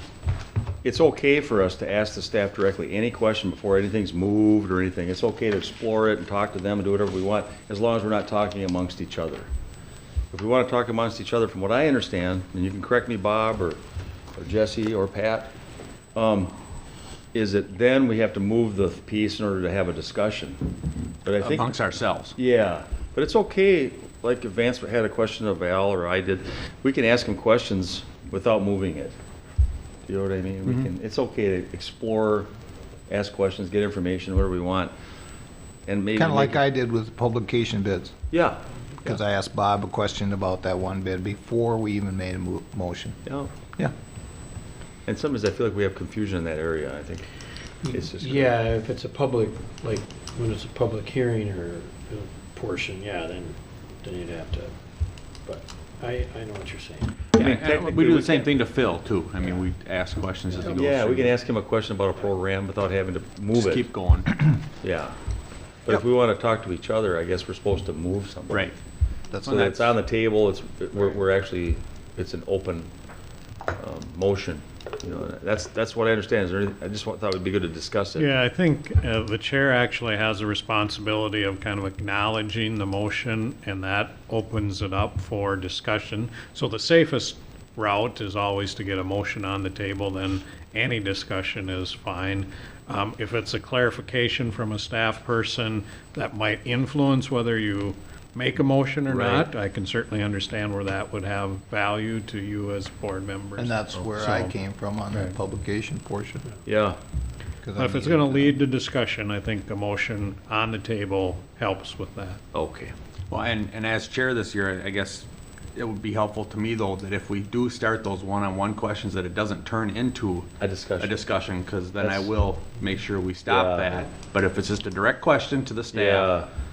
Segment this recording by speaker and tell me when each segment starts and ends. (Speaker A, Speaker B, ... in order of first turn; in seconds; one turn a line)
Speaker A: 0.8-9.5
Speaker A: 10.3-13.8
Speaker A: 14.3-15.5
Speaker A: 16.1-16.5
Speaker A: 17.3-20.7
Speaker A: 21.2-21.7
Speaker B: 21.4-22.3
Speaker A: 22.4-29.1
Speaker A: 30.1-32.5
Speaker A: 33.1-34.9
Speaker A: 35.9-36.6
Speaker C: 36.1-38.1
Speaker A: 38.3-39.2
Speaker C: 39.0-43.2
Speaker A: 43.2-43.5
Speaker A: 45.0-47.2
Speaker D: 47.8-54.7
Speaker A: 47.9-48.6
Speaker D: 55.4-57.2
Speaker B: 57.3-61.4
Speaker A: 57.4-58.5
Speaker A: 60.7-63.9
Speaker B: 63.5-64.3
Speaker A: 64.7-65.2
Speaker A: 65.8-68.7
Speaker B: 69.4-69.9
Speaker A: 69.4-72.9
Speaker A: 73.8-78.3
Speaker E: 78.2-104.5
Speaker A: 99.1-99.5
Speaker C: 103.6-106.5
Speaker A: 106.7-107.0
Speaker C: 107.6-108.5
Speaker E: 107.8-112.4
Speaker A: 112.5-112.9
Speaker B: 113.3-126.3
Speaker A: 120.6-121.2
Speaker A: 122.0-122.3
Speaker A: 123.5-124.0
Speaker A: 125.9-126.5